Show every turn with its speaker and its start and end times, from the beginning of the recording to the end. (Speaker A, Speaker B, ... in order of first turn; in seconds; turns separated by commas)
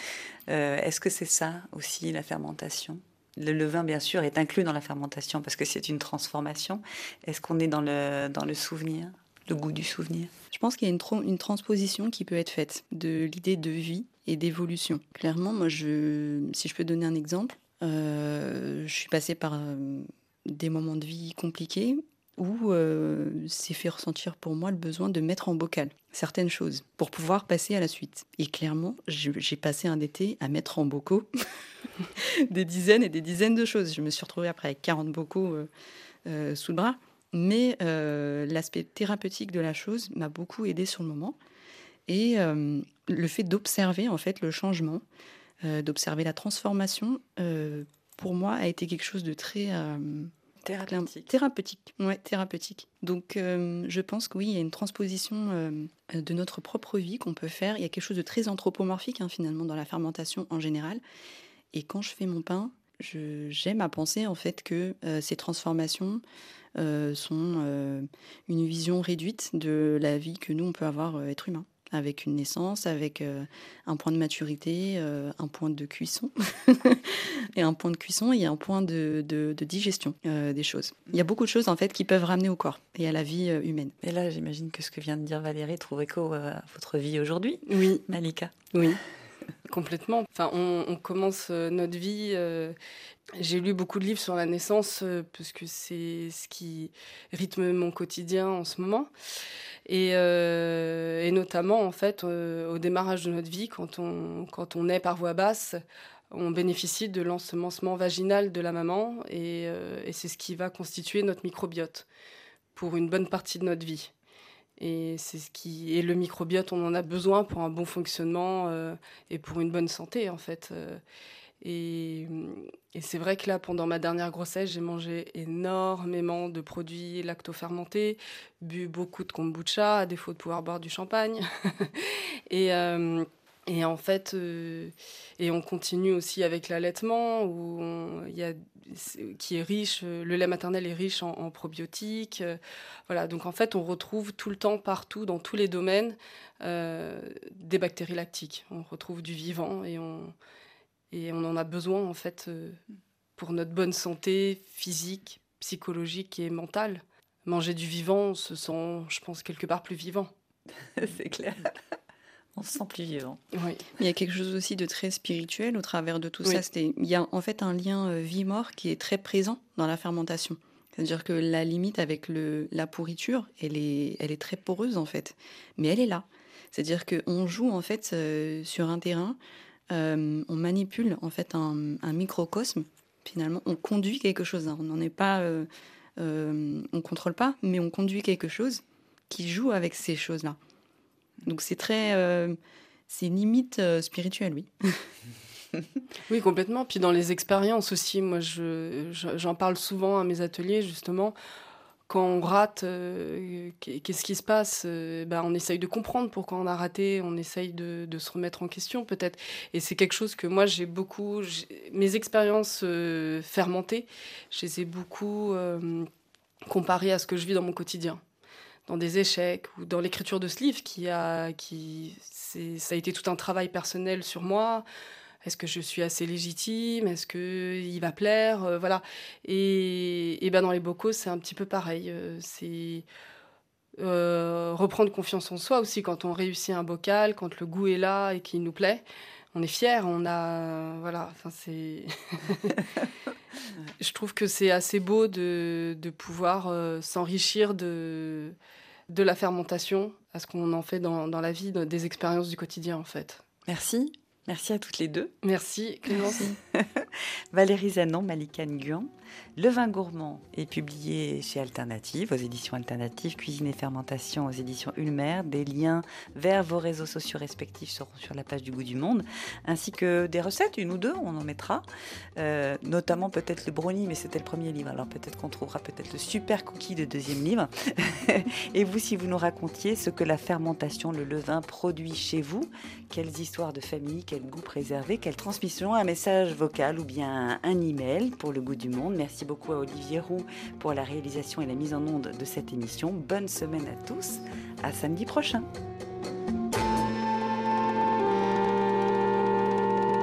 Speaker A: 0.5-10.3, Speaker B: 10.5-31.3, Speaker B: 32.1-35.7, Speaker B: 36.2-41.4, Speaker B: 42.1-45.0, Speaker B: 45.6-50.3, Speaker A: 50.6-51.3, Speaker B: 50.9-61.0, Speaker B: 61.7-66.2, Speaker B: 66.8-83.9, Speaker A: 84.0-88.8, Speaker C: 87.7-88.0, Speaker C: 88.7-89.0, Speaker C: 89.7-92.8, Speaker C: 93.4-99.1, Speaker C: 99.9-105.8, Speaker C: 106.3-112.0, Speaker C: 112.7-114.1, Speaker C: 114.8-121.0, Speaker C: 121.6-150.3, Speaker C: 151.1-152.8, Speaker C: 153.4-160.3, Speaker A: 160.9-161.8, Speaker A: 162.6-163.4, Speaker C: 163.5-163.8, Speaker B: 164.0-179.4, Speaker B: 179.9-190.6, Speaker B: 191.4-195.1, Speaker C: 196.3-201.3, Speaker C: 202.1-216.1, Speaker C: 216.7-218.2, Speaker C: 218.9-224.8, Speaker C: 225.4-233.1, Speaker C: 234.0-242.8, Speaker C: 244.0-248.6, Speaker C: 249.1-253.4, Speaker A: 253.7-255.3, Speaker C: 255.4-256.5, Speaker B: 256.3-256.6, Speaker A: 256.7-271.8, Speaker A: 272.4-295.6